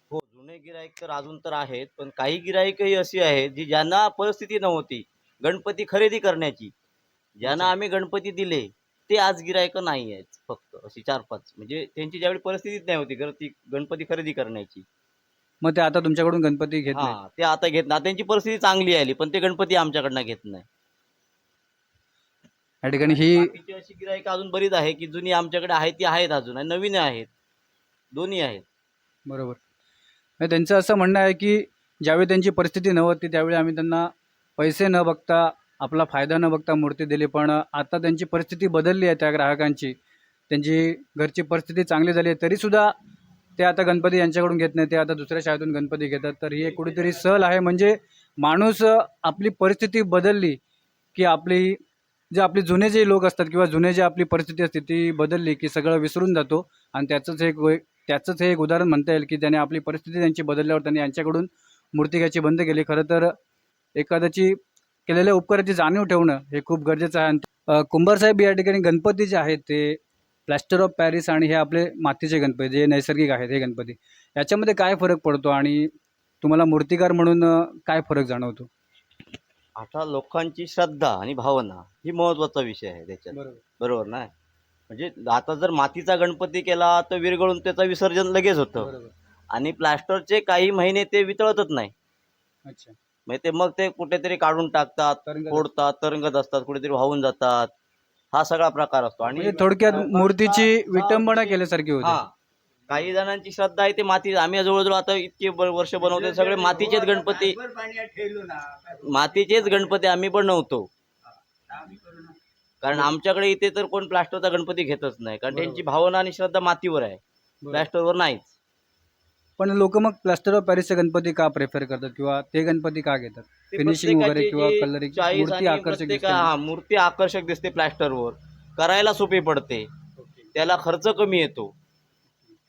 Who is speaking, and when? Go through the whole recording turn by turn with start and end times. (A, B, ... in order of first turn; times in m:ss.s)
0:00.1-0:06.7 A
0:07.4-0:14.8 A
0:07.4-0:07.7 B
0:15.6-0:17.2 B
0:16.9-0:20.6 A
0:22.8-0:23.5 B
0:23.0-0:27.3 A
0:28.1-0:28.6 A
0:29.3-0:29.6 B
0:30.4-0:39.9 B
0:40.5-0:42.9 B
0:43.6-0:50.6 B
0:51.1-0:51.8 B
0:52.3-1:03.4 B
1:03.9-1:18.7 B
1:19.8-1:24.3 A
1:23.3-1:23.6 B
1:24.9-1:28.9 A
1:28.8-1:29.1 B
1:29.5-1:31.9 A
1:32.6-1:32.9 B
1:33.3-1:37.7 A
1:35.2-1:35.7 B
1:38.3-1:42.3 A
1:39.3-1:39.8 C
1:39.4-1:42.2 B
1:42.9-1:47.6 A
1:46.0-1:49.9 C
1:49.1-1:50.9 A
1:51.7-1:52.4 C
1:52.8-1:57.2 A
1:55.6-1:55.8 B
1:57.7-1:58.5 A
1:59.6-2:06.5 B
2:03.7-2:09.9 A
2:10.2-2:10.5 B
2:10.5-2:11.7 A